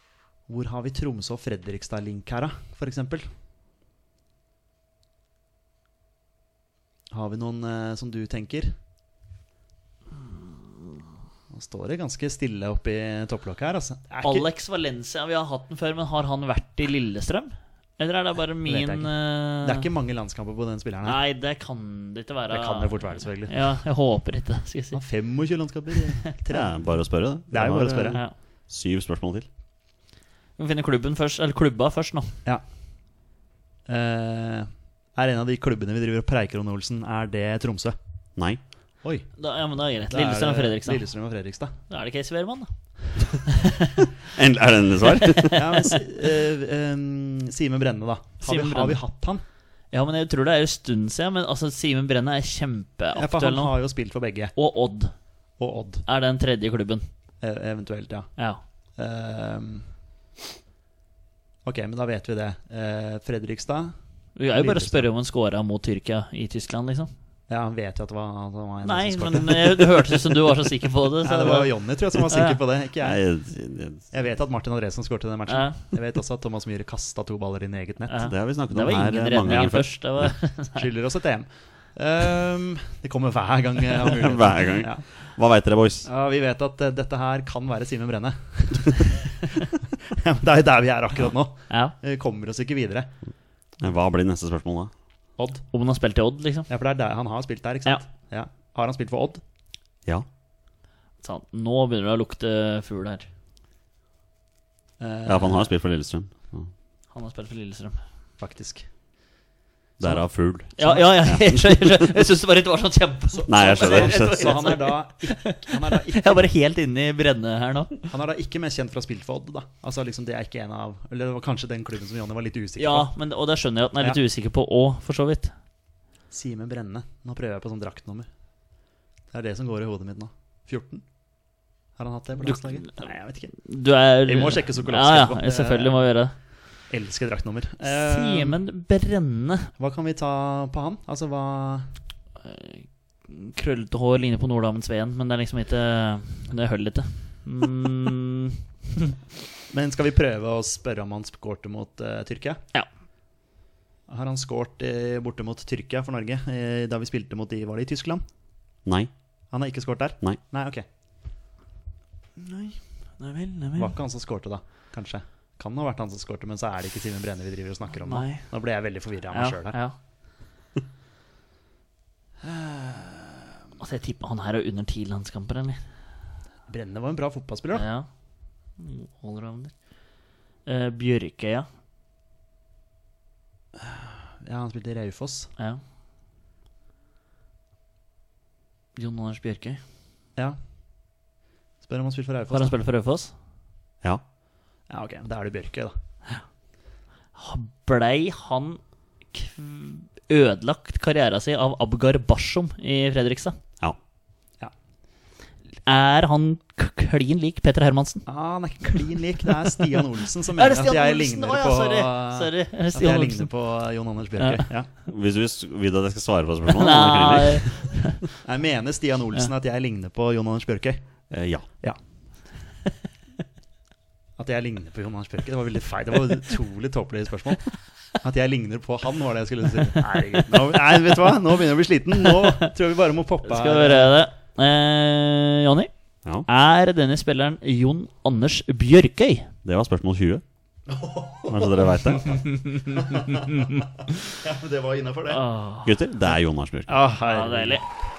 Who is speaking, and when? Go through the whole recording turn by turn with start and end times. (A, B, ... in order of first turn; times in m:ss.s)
0:00.5-0:03.3 A
0:07.1-0:08.7 A
0:11.5-0:14.4 A
0:14.1-0:19.9 B
0:18.7-0:21.2 A
0:21.0-0:25.0 B
0:22.5-0:23.6 A
0:24.9-0:26.9 A
0:26.5-0:29.5 C
0:27.5-0:28.2 A
0:28.1-0:28.3 B
0:30.6-0:32.4 B
0:33.9-0:38.0 A
0:39.4-0:41.0 B
0:40.1-0:41.7 A
0:41.9-0:42.7 B
0:43.5-0:43.9 B
0:44.3-0:45.6 C
0:45.2-0:45.9 B
0:45.5-0:49.4 A
0:48.4-0:49.0 B
0:49.9-0:53.8 B
0:53.1-0:54.6 A
0:54.6-0:55.1 B
0:55.6-0:56.0 A
0:56.1-0:57.0 B
0:57.4-0:58.4 A
0:59.0-0:59.9 A
1:01.6-1:03.9 A
1:04.4-1:07.1 B
1:04.5-1:05.1 A
1:07.5-1:10.2 A
1:08.8-1:12.6 B
1:11.2-1:13.2 A
1:13.0-1:14.0 C
1:14.1-1:18.3 A
1:15.5-1:15.8 B
1:18.1-1:20.8 B
1:18.3-1:20.3 C
1:20.8-1:25.1 A
1:24.1-1:26.1 C
1:26.0-1:29.5 A
1:30.1-1:33.1 A
1:31.7-1:31.9 B
1:33.8-1:34.9 C
1:35.4-1:35.6 A
1:35.7-1:36.7 B
1:36.7-1:39.4 A
1:41.2-1:43.2 B
1:45.0-1:45.7 A
1:45.2-1:46.7 C
1:47.1-1:48.0 B
1:48.4-1:48.9 A
1:50.0-1:52.1 C
1:50.8-1:58.0 B
1:53.4-1:56.5 A
1:53.5-1:54.6 C
1:58.1-2:03.1 A
2:02.8-2:05.5 B
2:06.3-2:08.3 A
2:09.3-2:11.0 A
2:12.0-2:13.5 A
2:12.4-2:16.3 B
2:14.2-2:16.0 A
2:16.9-2:18.6 A
2:17.8-2:19.7 B
2:19.8-2:21.9 A
2:22.4-2:29.1 B
2:29.7-2:32.6 A
2:34.1-2:38.2 A
2:39.5-2:40.8 A
2:42.4-2:43.9 B
2:43.8-2:49.8 A
2:48.0-2:48.4 B
2:49.3-2:49.9 B
2:52.4-2:53.4 A
2:53.8-2:55.8 B
2:56.7-2:57.8 A
2:57.7-2:58.1 B
2:58.8-2:59.7 B
3:00.6-3:01.7 B
3:03.8-3:05.5 A
3:09.0-3:09.8 B
3:11.8-3:12.7 A
3:12.5-3:13.3 B
3:14.9-3:15.9 A
3:17.3-3:23.6 B
3:25.8-3:28.2 B
3:28.3-3:34.9 A
3:30.6-3:33.5 B
3:34.4-3:34.7 B
3:35.1-3:37.9 C
3:36.7-3:38.2 B
3:38.4-3:41.0 A
3:41.3-3:41.6 C
3:44.4-3:54.2 A
3:50.0-3:51.0 B
3:52.3-3:52.7 B
3:53.4-3:55.9 B
3:56.4-3:59.5 B
3:59.6-4:00.4 C
4:00.9-4:02.2 A
4:01.5-4:02.4 C
4:02.5-4:03.8 B
4:03.0-4:03.5 A
4:04.4-4:05.4 A
4:05.3-4:05.9 B
4:05.8-4:06.9 C
4:06.9-4:07.8 A
4:07.2-4:07.8 B